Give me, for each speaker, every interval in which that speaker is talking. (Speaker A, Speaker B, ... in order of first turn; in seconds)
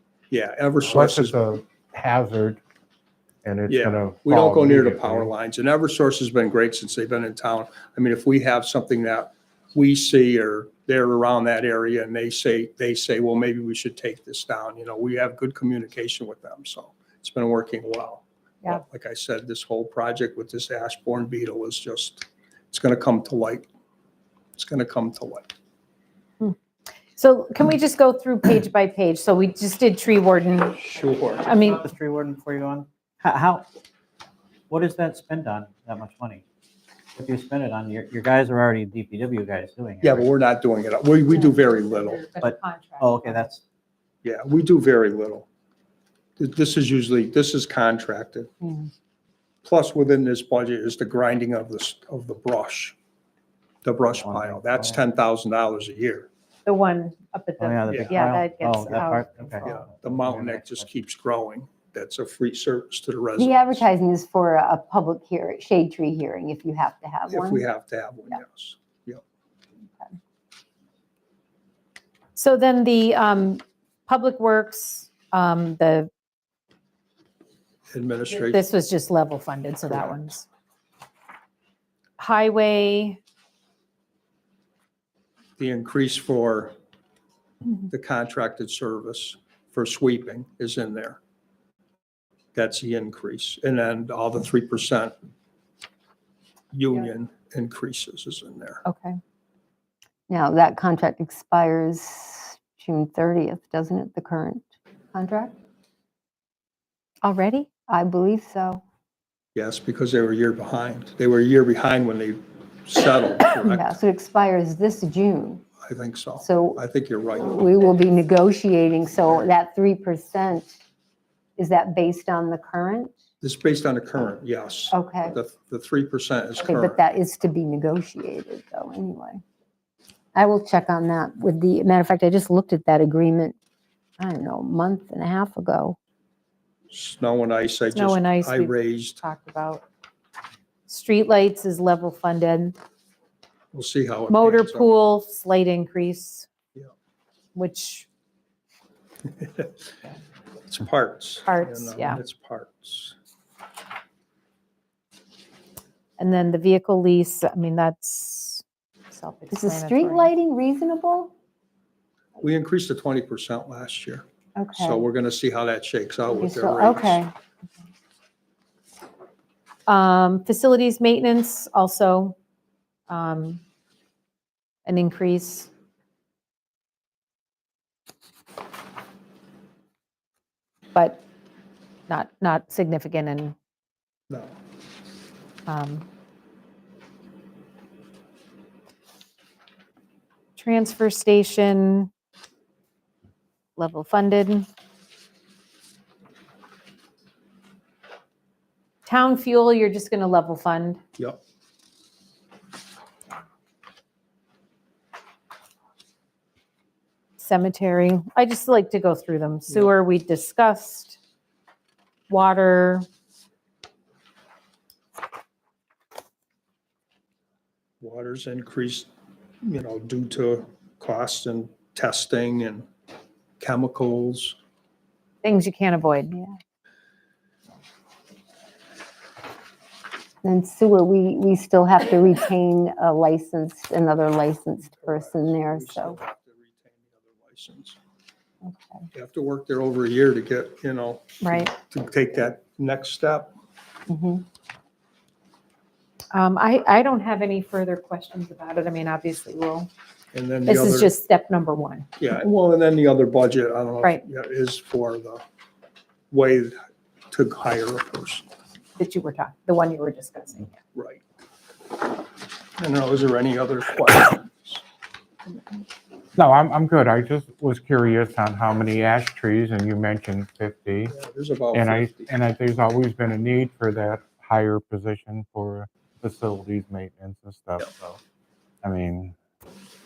Speaker A: 0.3-1.4, 3.7-23.7, 24.6-25.5, 30.8-31.5, 40.0-42.2, 44.2-45.5, 46.4-48.5, 49.6-52.9, 53.8-56.3, 57.9-58.3, 59.6-63.9, 67.3-69.2, 77.9-78.6, 79.8-80.3, 85.6-86.7, 87.9-91.2, 92.5-95.1, 96.7-98.8, 109.5-113.9, 115.8-117.7, 123.4-127.0, 136.9-139.2, 143.7-144.9, 149.2-149.8, 150.7-153.2, 162.4-164.2, 164.8-167.2, 184.3-184.6, 218.0-219.1, 219.6-222.9, 223.6-224.6, 234.9-238.0, 239.1-243.5, 250.3-251.1, 252.2-255.4, 256.3-256.8, 257.3-258.5, 260.9-261.2, 262.8-264.8, 271.1-272.3
Speaker B: 0.8-2.6, 3.4-5.3, 266.4-271.1, 271.7-278.2, 278.8-279.3
Speaker C: 27.1-31.9, 41.3-43.5, 56.6-59.8, 72.3-76.1, 78.3-80.5, 82.2-83.2, 98.8-99.2, 107.2-107.7, 137.9-139.8, 140.9-142.8, 144.3-146.5, 147.5-148.1, 151.4-152.2, 156.2-160.3, 169.9-172.3, 173.1-173.6, 174.8-175.7, 180.9-181.2, 182.1-183.6, 185.7-186.1, 190.6-192.1, 193.8-194.7, 199.1-201.0, 207.4-211.2, 212.3-213.1, 225.4-226.5, 241.4-241.7, 246.3-249.9, 250.7-252.1, 259.0-260.8
Speaker D: 31.2-33.6, 34.7-36.4, 37.1-40.2, 42.4-43.6, 54.1-55.0, 57.6-60.8
Speaker E: 63.4-67.6, 100.3-105.5, 107.9-108.8, 113.6-115.7, 116.4-116.8, 117.4-120.7, 121.6-123.1, 124.9-125.3, 126.6-129.4, 130.3-133.6, 134.2-136.0, 159.5-161.3, 164.6-165.0, 166.3-167.3, 230.4-236.2, 244.1-244.4